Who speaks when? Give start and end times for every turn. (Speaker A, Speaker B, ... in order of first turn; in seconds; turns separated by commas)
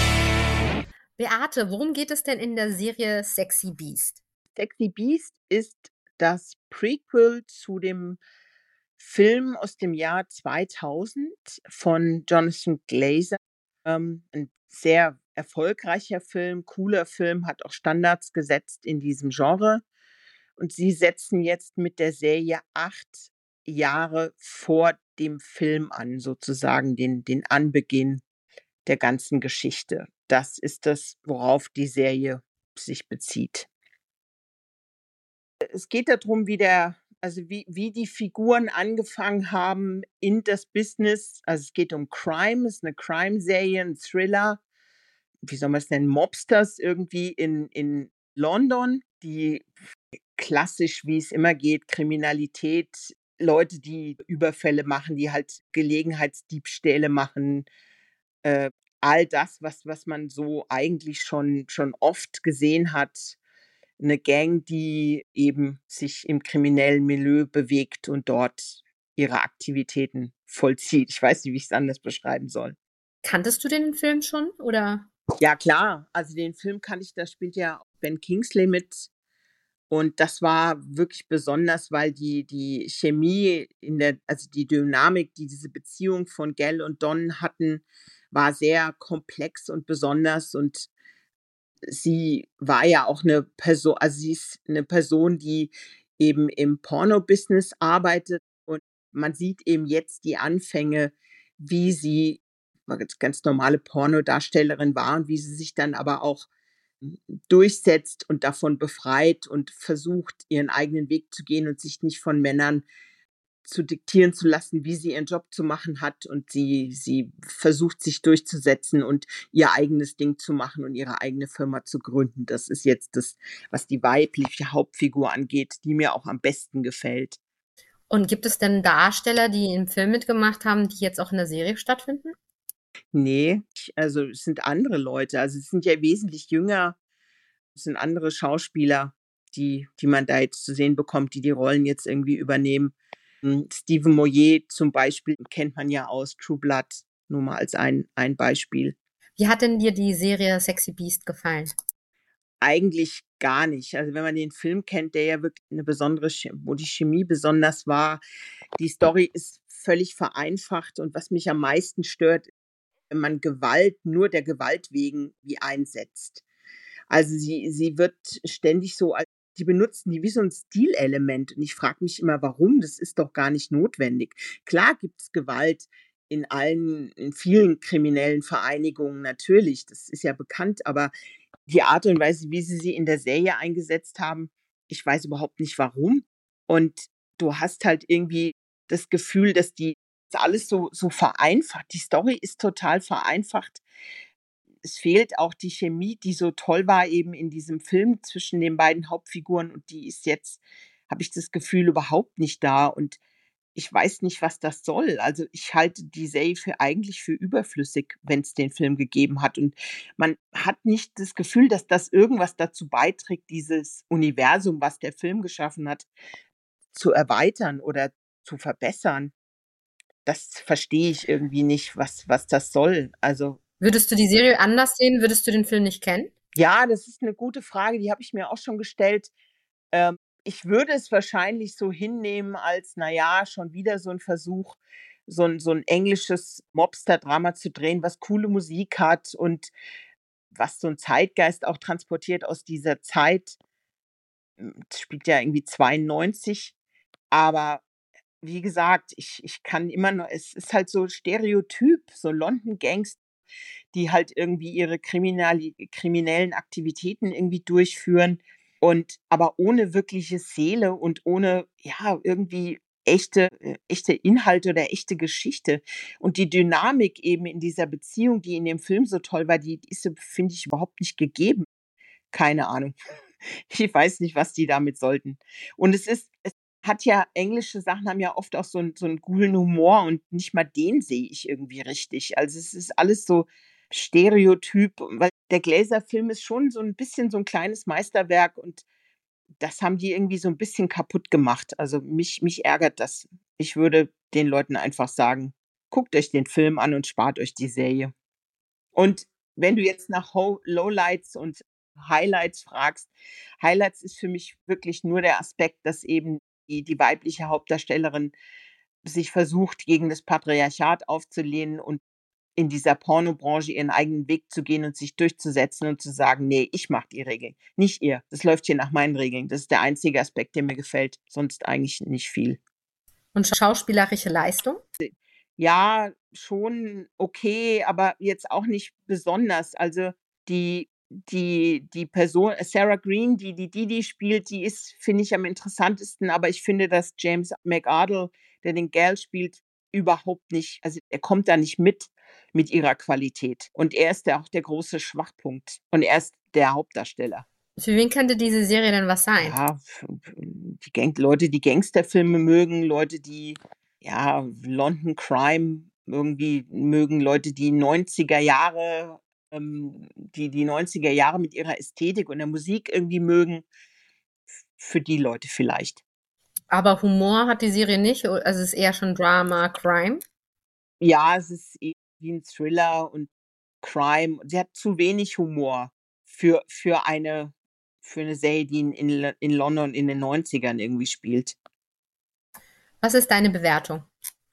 Speaker A: 1.2-4.2, Speaker B: 4.5-8.2, Speaker B: 9.0-19.8, Speaker B: 20.6-28.2, Speaker B: 28.9-33.7, Speaker B: 35.7-44.6, Speaker B: 45.5-49.7, Speaker B: 50.4-57.7, Speaker B: 58.4-63.4, Speaker B: 64.0-72.8, Speaker A: 73.2-75.1, Speaker B: 75.4-79.1, Speaker B: 79.9-90.9, Speaker B: 91.9-106.5, Speaker B: 107.0-112.8, Speaker B: 113.7-127.4, Speaker A: 128.1-132.3, Speaker B: 133.1-136.9, Speaker B: 137.8-148.9, Speaker A: 149.4-151.7, Speaker B: 152.6-158.2, Speaker B: 158.8-162.5, Speaker B: 163.1-166.4, Speaker B: 167.1-181.1, Speaker B: 181.7-193.8, Speaker B: 194.8-203.2, Speaker B: 203.8-216.1, Speaker B: 216.9-219.3, Speaker B: 220.2-223.6, Speaker A: 223.8-226.3, Speaker B: 226.6-229.3, Speaker B: 229.9-239.7, Speaker B: 240.5-243.6, Speaker B: 244.6-246.7, Speaker B: 247.3-247.8, Speaker B: 248.4-253.2, Speaker B: 253.9-271.6, Speaker B: 272.3-272.9, Speaker B: 273.7-288.8, Speaker B: 289.6-298.1, Speaker B: 298.9-303.1, Speaker B: 303.6-308.3, Speaker B: 309.0-312.0, Speaker B: 312.6-322.6, Speaker A: 323.3-324.8, Speaker B: 325.0-347.4, Speaker A: 347.8-349.6, Speaker B: 349.4-363.7, Speaker B: 364.7-366.0, Speaker A: 366.7-370.2, Speaker B: 371.0-373.3, Speaker B: 373.8-381.6, Speaker A: 383.0-384.1